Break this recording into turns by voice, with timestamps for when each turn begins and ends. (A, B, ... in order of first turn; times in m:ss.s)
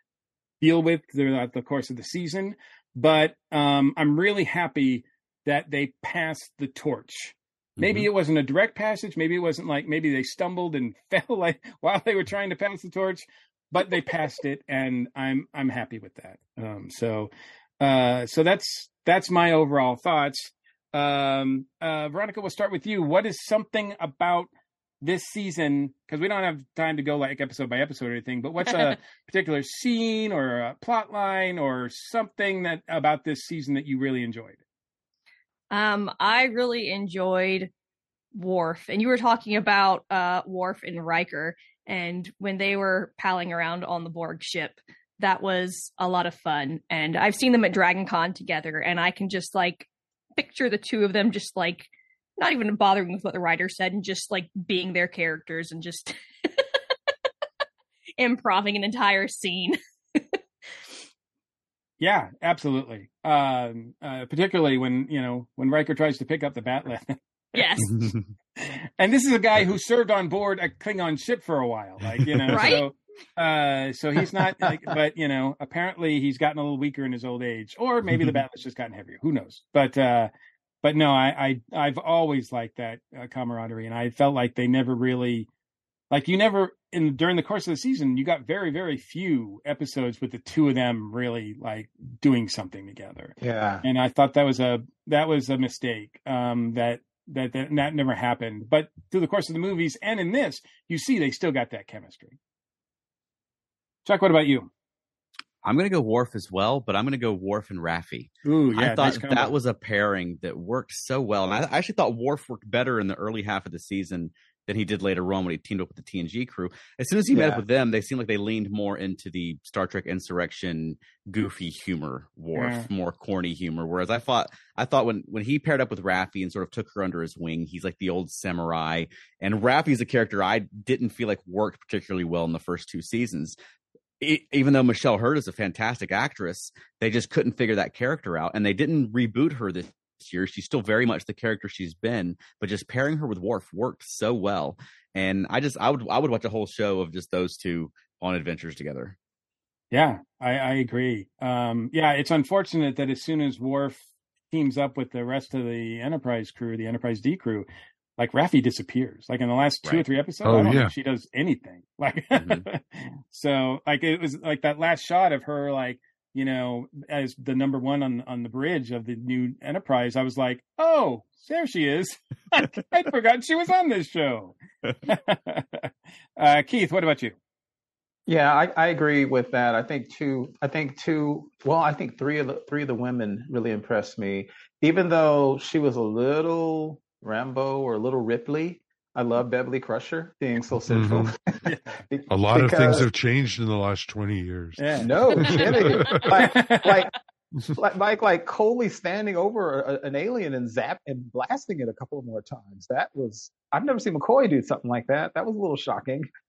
0:00.6-0:24.5 A
0:07.8-0:08.1 B
0:25.0-0:34.6 A
0:35.7-0:37.7 C
0:38.3-0:56.6 C
0:58.2-1:00.4 C
1:02.0-1:07.2 A
1:07.6-1:08.0 C
1:07.9-1:08.2 B
1:08.6-1:20.3 A
1:12.5-1:12.9 C
1:20.8-1:25.5 A
1:26.1-1:42.4 A
1:33.4-1:33.8 D
1:44.0-1:44.7 A
1:45.6-2:13.6 B
1:48.4-1:49.5 A
1:57.3-1:57.6 D
2:02.5-2:02.9 A
2:14.2-2:29.2 B
2:29.9-2:57.4 A
2:40.4-2:40.9 E
2:42.4-2:42.7 B
2:58.3-3:11.4 D
3:10.9-3:11.4 E
3:11.6-3:12.0 A
3:12.1-3:13.1 D
3:12.3-3:16.3 E
3:14.8-3:17.0 A
3:15.0-3:17.1 D
3:17.8-3:26.3 D